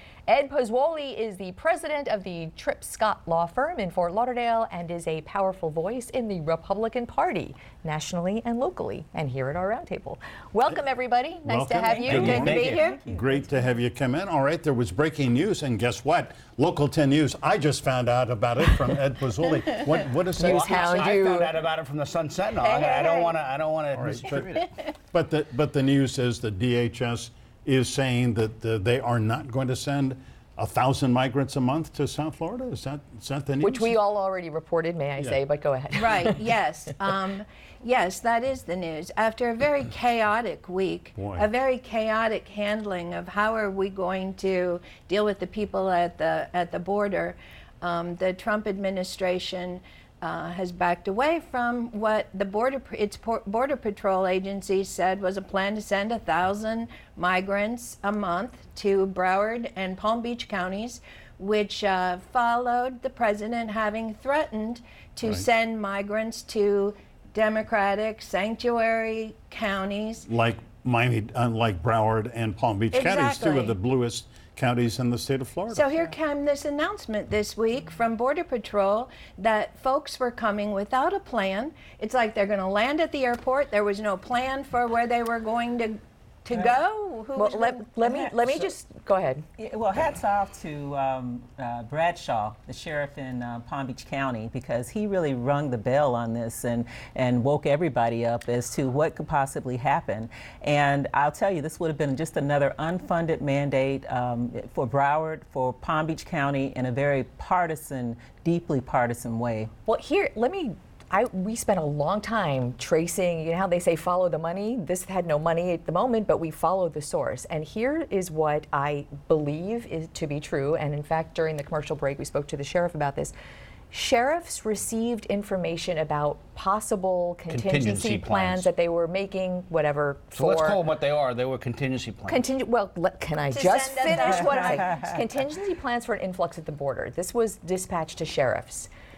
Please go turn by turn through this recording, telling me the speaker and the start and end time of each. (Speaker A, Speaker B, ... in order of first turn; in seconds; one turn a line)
Speaker A: 0.3-12.9
Speaker B: 11.4-21.0
Speaker C: 11.8-13.5
Speaker D: 12.1-12.8
Speaker E: 12.2-12.9
Speaker A: 20.4-21.6
Speaker D: 20.4-24.7
Speaker E: 22.6-23.3
Speaker B: 23.9-24.5
Speaker B: 25.1-34.0
Speaker A: 33.6-36.5
Speaker E: 35.9-70.2
Speaker B: 41.2-41.5
Speaker B: 70.3-76.1
Speaker E: 72.9-73.8
Speaker E: 75.7-87.9
Speaker A: 87.4-89.5
Speaker C: 89.6-109.7
Speaker A: 109.9-123.3
Speaker A: 123.9-130.8
Speaker D: 127.5-128.7
Speaker D: 130.4-132.4
Speaker A: 132.3-138.9
Speaker E: 133.5-135.2